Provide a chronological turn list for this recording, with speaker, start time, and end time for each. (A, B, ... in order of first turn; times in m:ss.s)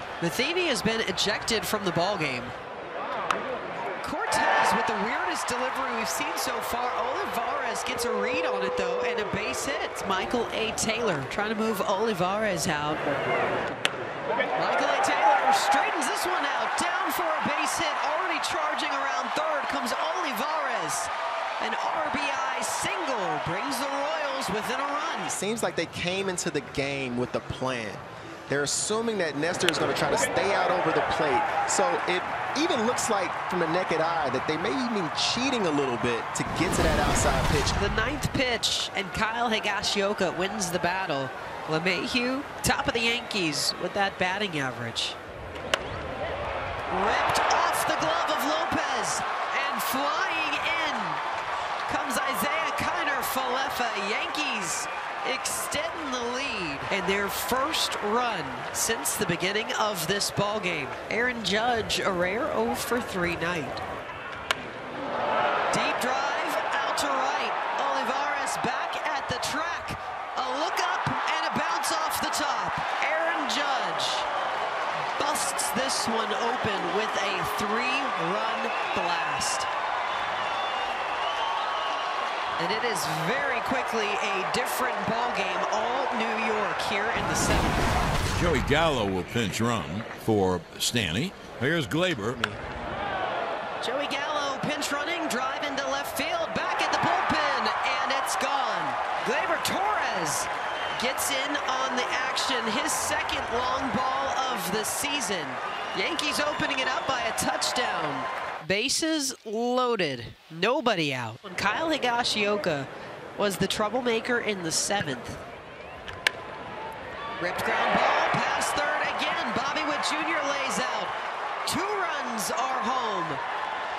0:00.2-0:02.5 A
0:04.0-0:13.0 A
0:14.6-0:25.3 A
0:25.3-0:37.8 B
0:37.8-0:45.2 A
0:46.9-0:51.2 A
0:51.9-1:03.8 A
1:05.7-1:14.3 A
1:15.2-1:19.7 A
1:22.6-1:27.9 A
1:28.3-1:32.4 C
1:32.3-1:32.6 B
1:33.8-1:55.4 A
1:57.4-2:01.1 A
2:01.6-2:03.4 A